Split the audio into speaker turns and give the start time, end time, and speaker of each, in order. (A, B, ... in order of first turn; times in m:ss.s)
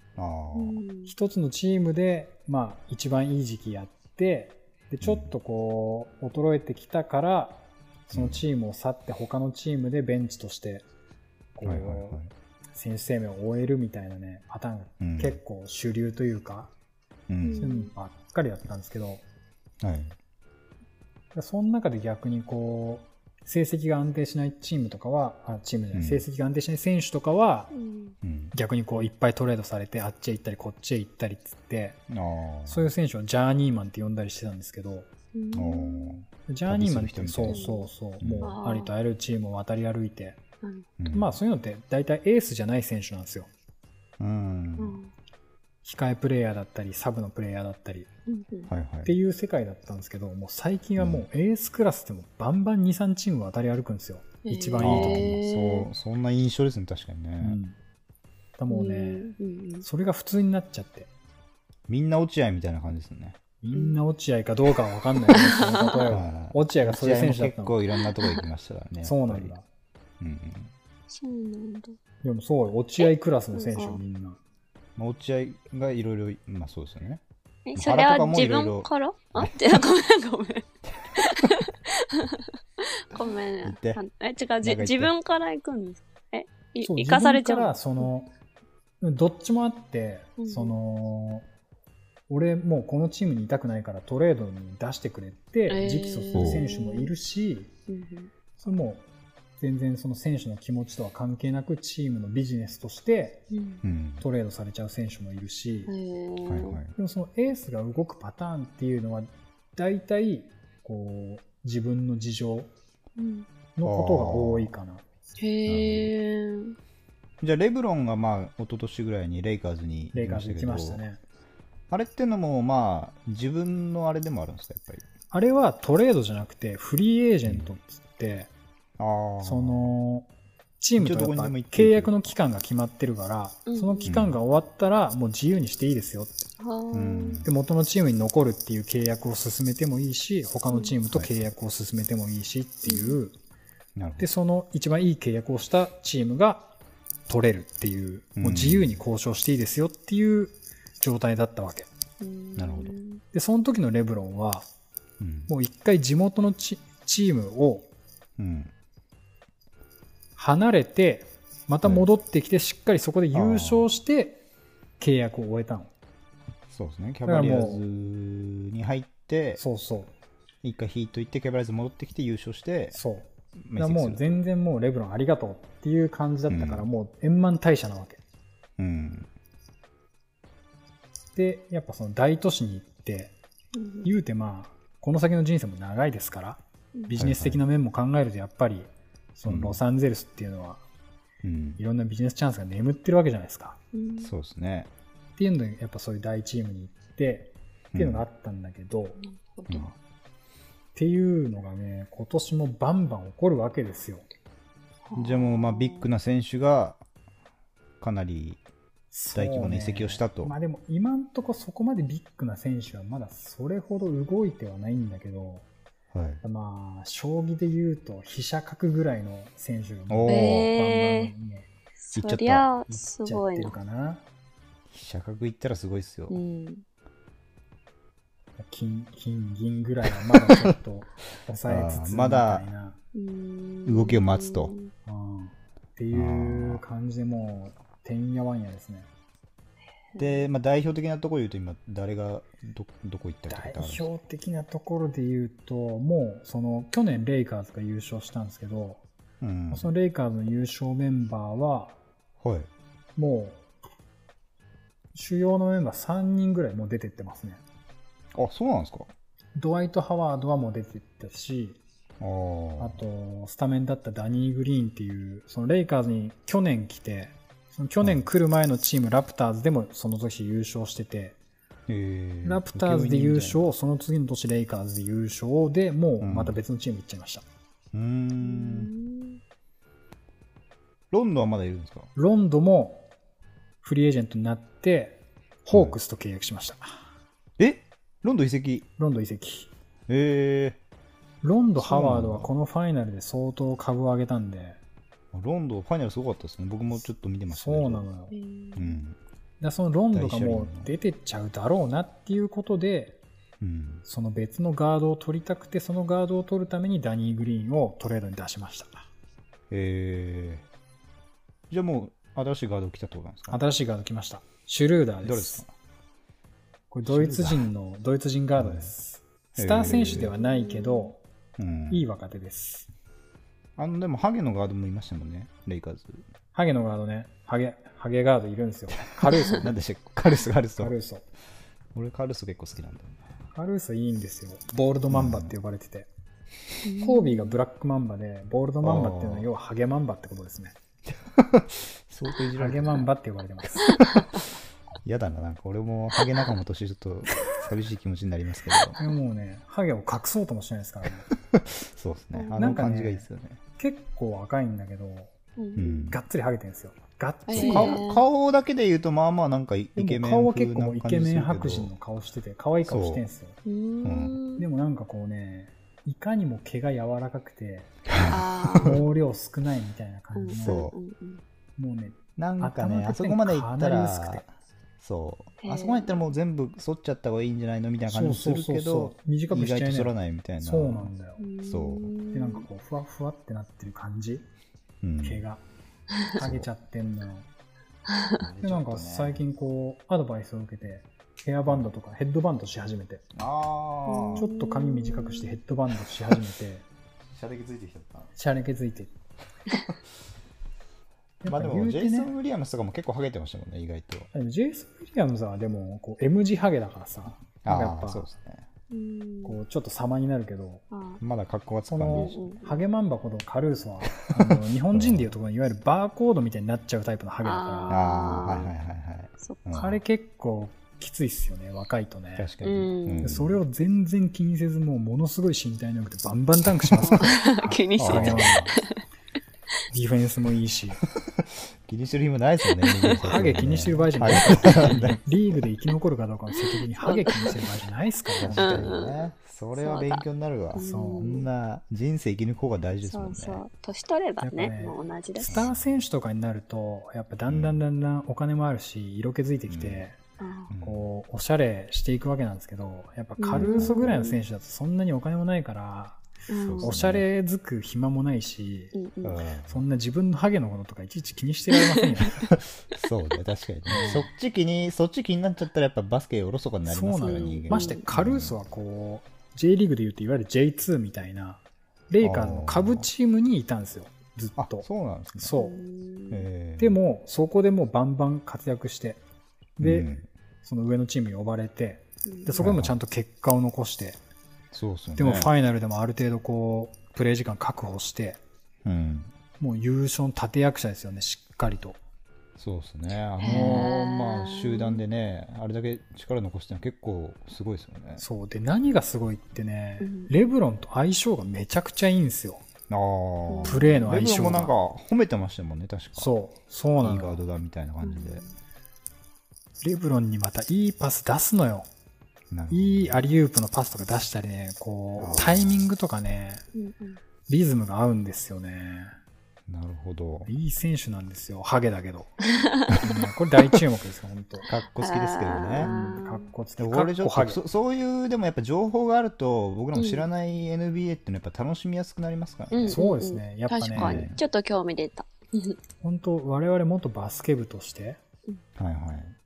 0:00.2-0:00.8 A
0:00.5-0:01.1 B
0:01.1-0:10.8 C
0:05.0-0:05.3 A
0:08.1-0:08.4 A
0:11.6-0:12.2 C
0:11.6-0:12.3 A
0:12.8-0:16.7 C
0:15.0-0:15.4 A
0:17.3-0:17.7 A
0:17.4-0:17.9 B
0:17.6-0:19.2 C
0:19.8-0:20.2 A
0:21.3-0:27.7 C
0:25.9-0:26.3 A
0:27.7-0:28.2 B
0:28.2-0:28.5 A
0:28.5-0:32.0 C
0:32.1-0:32.9 A
0:32.7-0:35.1 C
0:35.4-0:36.2 B
0:35.5-0:37.7 A
0:36.5-0:40.4 C
0:37.5-0:37.9 B
0:38.2-0:38.6 A
0:38.4-0:38.9 B
0:41.0-0:41.4 A
0:41.1-0:43.5 C
0:44.2-0:45.0 A
0:44.8-0:45.1 B
0:45.8-0:48.1 C
0:48.3-0:48.7 B
0:48.7-0:49.1 A
0:49.0-0:55.3 C
0:51.0-0:51.3 A
0:54.4-0:55.9 B
0:54.8-0:57.6 A
0:57.4-0:57.8 C
0:58.6-1:01.1 C
0:58.7-0:59.9 B
1:01.9-1:03.4 A
1:03.6-1:07.8 C
1:05.3-1:06.1 B
1:06.1-1:09.5 A
1:09.0-1:09.6 C
1:10.2-1:10.7 A
1:11.1-1:12.0 B
1:12.2-1:14.4 C
1:13.5-1:14.0 B
1:15.0-1:17.2 A
1:17.7-1:28.1 B
1:17.8-1:19.6 A
1:21.0-1:21.6 A
1:23.6-1:24.0 A
1:24.6-1:25.1 A
1:26.8-1:28.3 C
1:29.0-1:31.5 C
1:30.4-1:30.7 B
1:32.3-1:37.7 C
1:35.7-1:37.1 B
1:36.3-1:36.7 A
1:37.9-1:38.3 B
1:38.6-1:39.0 C
1:39.6-1:43.5 C
1:43.5-1:43.8 B
1:43.8-1:44.2 A
1:44.2-1:45.9 C
1:45.9-1:46.8 B
1:46.4-1:46.9 A
1:47.0-1:52.7 C
1:53.2-1:53.5 B
1:53.8-1:55.0 C
1:53.8-1:54.7 A
1:55.4-1:56.8 B
1:55.7-1:56.1 A
1:57.4-2:01.0 A
2:00.1-2:01.2 C
2:01.9-2:05.0 A
2:05.3-2:08.5 C
2:07.5-2:07.7 A
2:09.0-2:09.9 A
2:09.4-2:10.3 C
2:10.8-2:16.5 C
2:11.0-2:12.3 A
2:13.7-2:14.2 B
2:14.0-2:14.4 A
2:16.6-2:17.4 B
2:16.9-2:17.5 A
2:17.4-2:23.3 C
2:20.7-2:21.0 B
2:22.8-2:23.2 B
2:24.0-2:24.3 A
2:24.2-2:26.7 C
2:27.3-2:31.9 C
2:28.4-2:29.0 A
2:32.2-2:33.2 B
2:32.6-2:33.0 A
2:33.3-2:34.7 C
2:35.2-2:35.5 A
2:35.5-2:37.9 C
2:38.4-2:38.7 A
2:40.4-2:44.4 C
2:43.3-2:43.9 A
2:45.0-2:45.9 C
2:46.7-2:49.6 A
2:47.3-2:47.8 C
2:49.6-2:50.1 C
2:50.6-2:53.0 A
2:52.9-2:58.2 C
2:53.6-2:54.4 A
2:56.5-2:56.9 A
2:58.8-2:59.3 A
3:01.4-3:03.4 C
3:03.8-3:04.1 B
3:04.0-3:10.8 C
3:07.2-3:07.6 A
3:09.5-3:09.8 A
3:11.4-3:11.8 A
3:11.8-3:13.8 C
3:13.9-3:14.3 B
3:14.2-3:14.9 A
3:15.4-3:19.2 C
3:17.9-3:18.2 A
3:19.2-3:19.9 B
3:19.7-3:19.9 A
3:21.0-3:24.3 C
3:25.1-3:26.1 B
3:25.2-3:27.0 A
3:28.0-3:28.6 A
3:29.1-3:35.7 C
3:29.3-3:30.5 A
3:36.1-3:36.4 A
3:36.4-3:41.7 C
3:40.1-3:40.7 A
3:40.3-3:41.3 B
3:42.0-3:43.7 B
3:42.1-3:42.7 A
3:42.9-3:44.2 C
3:44.9-3:46.4 A
3:46.3-3:46.8 B
3:48.6-3:53.0 C
3:50.1-3:50.8 A
3:51.7-3:52.7 A
3:53.1-3:54.9 B
3:53.9-3:54.7 A
3:55.1-3:59.1 C
3:56.1-3:56.8 A
4:00.1-4:00.4 B
4:00.2-4:04.1 A
4:03.5-4:09.0 C
4:09.4-4:09.9 A
4:09.7-4:12.0 C
4:12.4-4:12.7 A
4:13.2-4:13.6 C
4:15.1-4:17.6 C
4:18.4-4:19.1 A
4:19.6-4:21.8 C
4:22.2-4:23.0 A
4:22.8-4:31.4 C
4:31.9-4:33.7 A
4:32.4-4:37.4 C
4:36.2-4:36.6 A
4:37.9-4:38.9 A
4:38.4-4:39.4 B
4:41.1-4:42.1 A
4:42.2-4:43.1 C
4:43.8-4:47.0 C
4:47.6-4:48.9 A
4:49.0-4:49.7 C
4:50.1-4:50.8 A
4:51.4-4:54.8 C
4:51.8-4:52.5 A
4:55.3-4:58.0 A
4:57.5-4:58.3 C
4:58.3-4:59.0 B
4:58.8-4:59.2 A
4:59.6-5:03.2 C
5:00.1-5:00.9 A
5:03.6-5:04.0 A
5:04.1-5:09.0 C
5:09.7-5:10.7 A
5:11.7-5:13.6 A
5:13.5-5:15.6 C
5:15.2-5:15.7 A
5:16.9-5:21.2 C
5:17.1-5:17.7 A
5:18.6-5:18.9 A
5:19.6-5:20.3 A
5:20.2-5:21.1 B
5:21.6-5:22.0 A
5:21.9-5:22.9 C
5:23.8-5:26.2 A
5:26.5-5:29.8 C
5:29.2-5:31.0 A
5:30.8-5:31.2 C
5:31.9-5:33.2 A
5:33.5-5:36.1 C
5:35.1-5:35.5 A
5:36.8-5:37.6 B
5:37.0-5:40.7 C
5:38.8-5:39.5 A
5:41.1-5:43.1 A
5:42.6-5:44.1 C
5:43.6-5:44.5 A
5:43.9-5:44.2 B
5:45.0-5:49.0 A
5:49.0-5:51.3 C
5:51.5-5:53.6 A
5:52.3-5:52.8 B
5:52.6-5:53.3 C
5:53.8-5:58.0 C
5:55.6-5:56.1 B
5:55.8-5:56.2 A
5:57.5-5:58.2 B
5:57.5-6:01.9 A
6:00.0-6:03.6 C
6:02.8-6:03.2 A
6:03.6-6:04.6 B
6:04.0-6:04.4 A
6:04.6-6:07.9 C
6:08.1-6:09.0 A
6:08.3-6:09.1 B
6:08.7-6:10.8 C
6:10.4-6:11.4 B
6:10.6-6:11.0 A
6:11.8-6:14.4 C
6:12.4-6:14.4 A
6:15.0-6:22.1 A
6:15.6-6:16.2 B
6:18.1-6:21.4 C
6:21.4-6:22.7 B
6:22.3-6:24.5 C
6:25.0-6:25.4 A
6:25.2-6:25.6 C
6:26.3-6:27.5 C
6:26.4-6:26.7 A
6:28.1-6:28.4 B
6:28.4-6:29.4 A
6:28.6-6:33.2 C
6:33.4-6:34.5 A
6:34.1-6:35.6 B
6:34.3-6:36.8 C
6:37.3-6:38.3 A
6:38.4-6:39.1 C
6:39.7-6:40.0 A
6:41.4-6:42.3 C
6:41.5-6:44.3 A
6:44.3-6:48.3 C
6:47.6-6:48.7 A
6:48.9-6:49.6 B
6:49.4-6:50.8 C
6:50.9-6:51.2 B
6:51.2-6:52.4 A
6:51.9-6:58.0 C
6:52.1-6:52.8 B
6:54.2-6:55.3 A
6:57.4-6:58.7 B
6:57.9-7:00.0 A
6:59.7-7:02.5 C
7:02.4-7:03.6 A
7:02.6-7:03.3 B
7:03.2-7:08.7 C
7:06.8-7:07.2 A
7:07.0-7:09.0 B
7:08.0-7:08.7 A
7:09.9-7:11.0 C
7:11.1-7:15.6 A
7:12.8-7:13.2 B
7:13.2-7:18.9 C
7:17.0-7:17.5 B
7:18.4-7:23.6 A
7:18.5-7:19.2 B
7:19.8-7:21.5 B
7:20.8-7:21.4 C
7:23.0-7:25.7 B
7:24.4-7:30.2 C
7:25.5-7:25.8 A
7:27.5-7:27.8 A
7:29.7-7:30.1 A
7:30.4-7:30.7 B
7:30.7-7:31.0 A
7:30.8-7:36.2 C
7:33.4-7:34.4 B
7:33.5-7:34.0 A
7:36.5-7:37.0 B
7:36.6-7:37.2 A
7:36.8-7:39.0 C
7:38.9-7:39.4 B
7:39.2-7:39.8 A
7:39.7-7:42.5 C
7:41.8-7:42.3 B
7:42.5-7:48.6 A
7:43.9-7:44.2 C
7:46.9-7:54.9 C
7:47.2-7:48.0 B
7:52.2-7:53.1 A
7:54.6-7:55.5 A
7:55.4-7:55.8 C
7:55.5-7:56.5 B
7:56.3-7:57.0 A
7:56.8-7:59.2 C
7:59.8-8:00.1 C
7:59.8-8:00.3 A
8:00.6-8:04.2 C
8:02.3-8:02.6 B
8:02.6-8:03.0 A
8:04.7-8:05.5 A
8:05.2-8:08.4 C
8:08.8-8:09.3 A
8:09.6-8:12.0 C
8:12.6-8:18.2 A
8:13.4-8:15.0 B
8:13.4-8:13.9 C
8:18.2-8:22.6 C
8:20.0-8:20.3 B
8:22.9-8:26.3 A
8:23.5-8:24.0 B
8:23.6-8:24.7 C
8:26.2-8:27.4 C
8:27.0-8:28.4 A
8:28.0-8:28.5 B
8:29.8-8:31.9 C
8:32.5-8:33.3 A
8:32.7-8:36.6 C
8:35.2-8:35.9 A
8:36.7-8:37.2 B
8:37.5-8:39.2 C
8:39.7-8:40.5 A
8:40.5-8:42.4 C
8:42.4-8:43.0 B
8:43.0-8:44.7 C
8:44.7-8:45.9 A
8:45.0-8:46.5 B
8:45.8-8:47.6 C
8:46.8-8:53.0 A
8:50.0-8:50.3 B
8:52.7-8:55.8 B
8:52.9-8:54.3 C
8:54.0-8:54.4 A
8:56.0-8:58.2 C
8:58.8-8:59.4 A